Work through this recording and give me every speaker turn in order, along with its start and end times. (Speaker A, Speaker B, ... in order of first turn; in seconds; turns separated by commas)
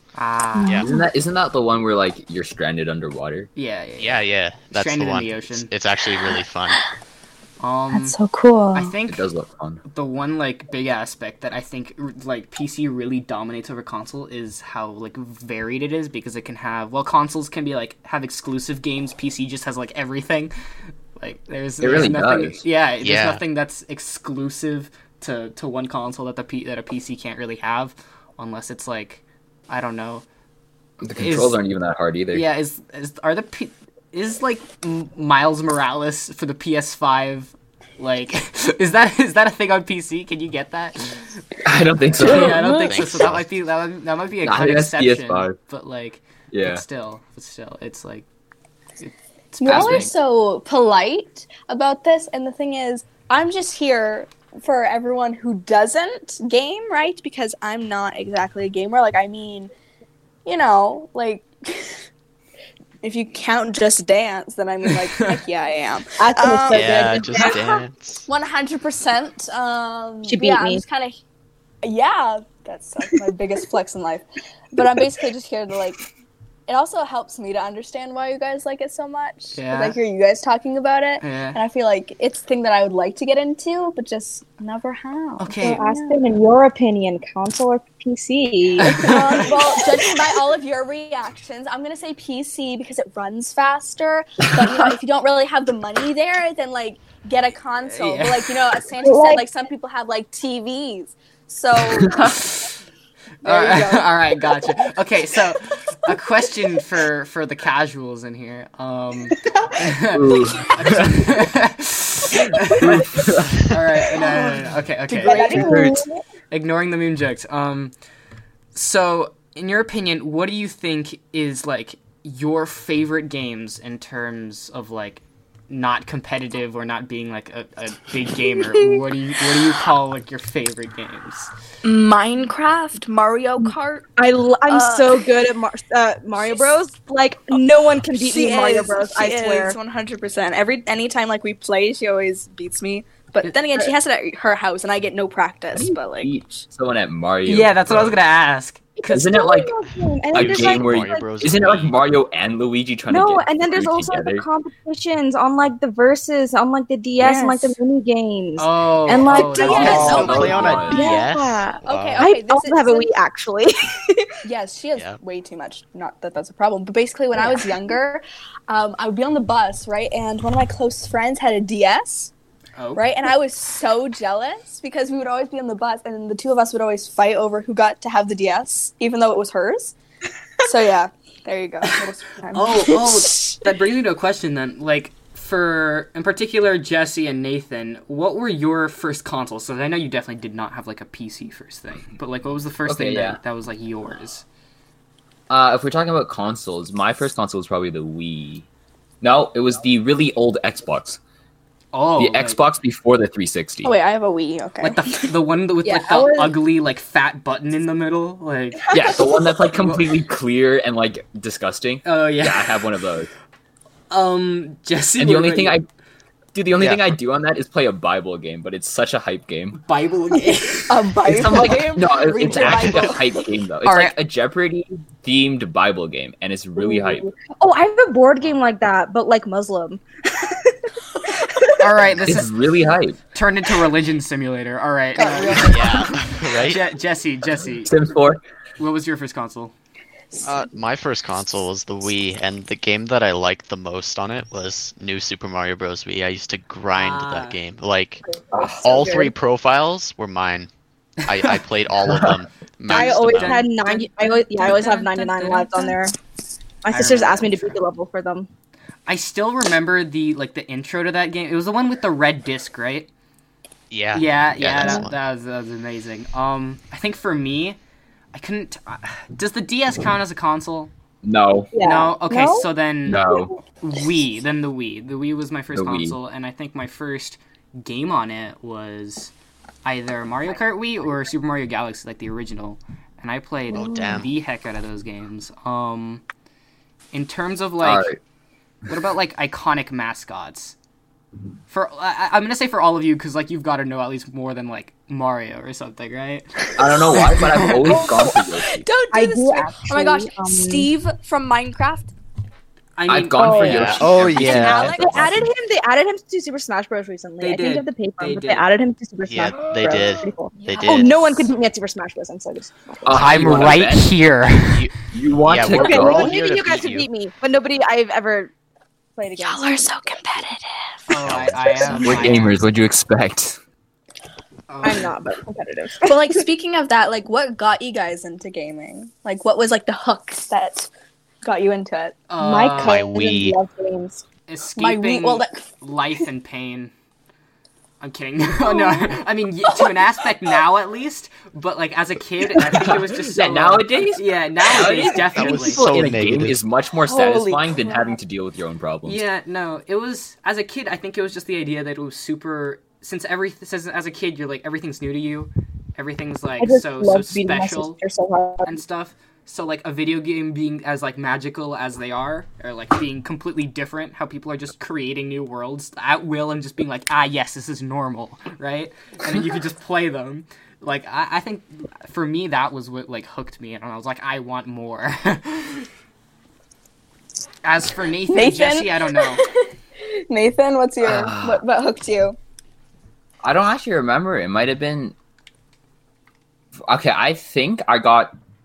Speaker A: 0.2-0.9, Speaker B: 0.8-3.5, Speaker A: 3.6-5.7, Speaker C: 4.0-6.8, Speaker A: 7.6-8.2, Speaker D: 7.9-8.9, Speaker A: 8.7-9.3, Speaker B: 9.1-9.8, Speaker A: 9.9-20.5, Speaker A: 21.2-30.2, Speaker B: 21.8-22.6, Speaker C: 23.0-23.4, Speaker B: 31.0-32.5, Speaker A: 31.2-31.6, Speaker A: 32.3-41.4, Speaker B: 41.6-42.7, Speaker A: 42.1-48.3, Speaker C: 42.6-43.5, Speaker B: 44.4-45.6, Speaker B: 46.5-46.8, Speaker A: 49.0-50.1, Speaker D: 49.6-59.7, Speaker B: 49.7-50.1, Speaker D: 60.5-62.0, Speaker D: 63.0-71.2, Speaker A: 65.0-65.4, Speaker E: 66.2-67.7, Speaker C: 66.7-68.2, Speaker E: 70.3-70.8, Speaker D: 71.8-76.0, Speaker E: 74.8-75.0, Speaker D: 76.7-86.2, Speaker A: 79.5-80.0, Speaker A: 81.2-81.6, Speaker A: 85.4-85.8, Speaker E: 85.6-90.0, Speaker A: 88.8-89.6, Speaker D: 89.0-102.5, Speaker A: 97.8-98.7, Speaker E: 99.0-99.5, Speaker A: 102.2-102.7, Speaker A: 103.4-115.7, Speaker D: 103.4-104.7, Speaker B: 110.1-111.3, Speaker B: 112.8-113.6, Speaker D: 114.2-115.9, Speaker E: 115.2-116.2, Speaker B: 115.5-116.0, Speaker A: 116.5-117.9, Speaker A: 118.7-131.5, Speaker D: 131.8-134.1, Speaker E: 133.7-139.8, Speaker D: 134.7-135.3, Speaker D: 136.4-136.8, Speaker D: 138.1-146.3, Speaker B: 145.7-148.2, Speaker A: 147.5-149.3, Speaker E: 149.0-151.3, Speaker B: 149.1-149.8, Speaker C: 150.3-151.9, Speaker B: 150.3-154.5, Speaker E: 153.1-164.3, Speaker D: 157.2-157.8, Speaker A: 158.6-160.9, Speaker D: 159.3-161.3, Speaker B: 159.6-161.0, Speaker C: 159.7-162.3, Speaker D: 161.8-163.1, Speaker D: 164.4-172.3, Speaker E: 167.4-168.0, Speaker A: 172.8-173.1, Speaker D: 172.9-179.9, Speaker D: 180.6-183.5, Speaker A: 182.5-194.4, Speaker B: 192.9-193.4, Speaker B: 195.5-198.7, Speaker B: 199.2-201.2, Speaker A: 201.9-202.6, Speaker B: 202.2-203.9, Speaker D: 203.8-205.3, Speaker A: 204.8-209.0, Speaker E: 205.8-206.6, Speaker B: 208.9-213.3, Speaker A: 212.1-212.8, Speaker A: 214.1-215.8, Speaker B: 215.2-215.9, Speaker B: 216.5-219.8, Speaker C: 216.8-217.0, Speaker A: 219.8-221.1, Speaker D: 220.9-223.4, Speaker B: 221.2-227.3, Speaker A: 223.8-224.2, Speaker E: 226.8-230.8, Speaker A: 231.8-232.5, Speaker B: 232.2-233.2, Speaker A: 233.3-237.9, Speaker D: 235.2-236.2, Speaker C: 235.7-236.8, Speaker B: 237.8-238.4, Speaker A: 238.8-239.7, Speaker C: 240.4-248.2, Speaker A: 246.9-247.6, Speaker E: 248.3-249.3, Speaker C: 248.8-250.7, Speaker C: 251.2-253.6, Speaker A: 251.3-251.6, Speaker B: 252.1-252.4, Speaker A: 252.9-256.0, Speaker E: 252.9-256.1, Speaker E: 256.8-258.5, Speaker A: 256.9-257.8, Speaker A: 259.1-263.1, Speaker C: 263.9-265.2, Speaker A: 264.1-267.8, Speaker A: 268.3-270.9, Speaker B: 271.2-271.7, Speaker E: 271.7-273.4, Speaker A: 271.8-273.3, Speaker B: 273.1-273.5, Speaker A: 273.8-279.3, Speaker B: 275.7-276.2, Speaker A: 279.8-286.2, Speaker C: 283.7-284.3, Speaker A: 287.1-288.1, Speaker B: 287.8-288.2, Speaker A: 288.9-290.8, Speaker A: 291.7-298.1, Speaker B: 296.8-298.8, Speaker D: 297.6-302.1, Speaker E: 299.1-300.9, Speaker A: 303.0-305.0, Speaker B: 303.1-305.5, Speaker E: 303.4-303.9, Speaker C: 303.6-304.9, Speaker D: 304.3-305.2, Speaker E: 304.9-313.4, Speaker A: 307.4-308.7, Speaker C: 309.3-311.5, Speaker D: 309.6-311.2, Speaker B: 313.0-314.1, Speaker A: 313.1-314.9, Speaker B: 315.1-316.4, Speaker C: 315.5-317.1, Speaker E: 315.7-318.5, Speaker E: 319.2-320.1, Speaker D: 319.4-321.2, Speaker A: 321.1-322.6, Speaker B: 321.2-323.6, Speaker A: 324.7-325.1, Speaker E: 324.8-326.3, Speaker D: 326.0-330.9, Speaker D: 331.4-332.2, Speaker A: 332.3-333.0, Speaker E: 332.4-334.2, Speaker C: 332.8-333.6, Speaker A: 334.5-336.9, Speaker D: 334.8-335.6, Speaker A: 338.0-345.9, Speaker D: 338.6-339.9, Speaker B: 343.3-349.2, Speaker C: 345.4-346.6, Speaker D: 347.0-348.1, Speaker A: 349.1-358.0, Speaker E: 356.6-358.8, Speaker A: 358.6-375.9, Speaker A: 377.6-379.4, Speaker D: 378.3-382.4, Speaker B: 381.0-381.6, Speaker B: 383.4-385.1, Speaker B: 386.8-388.3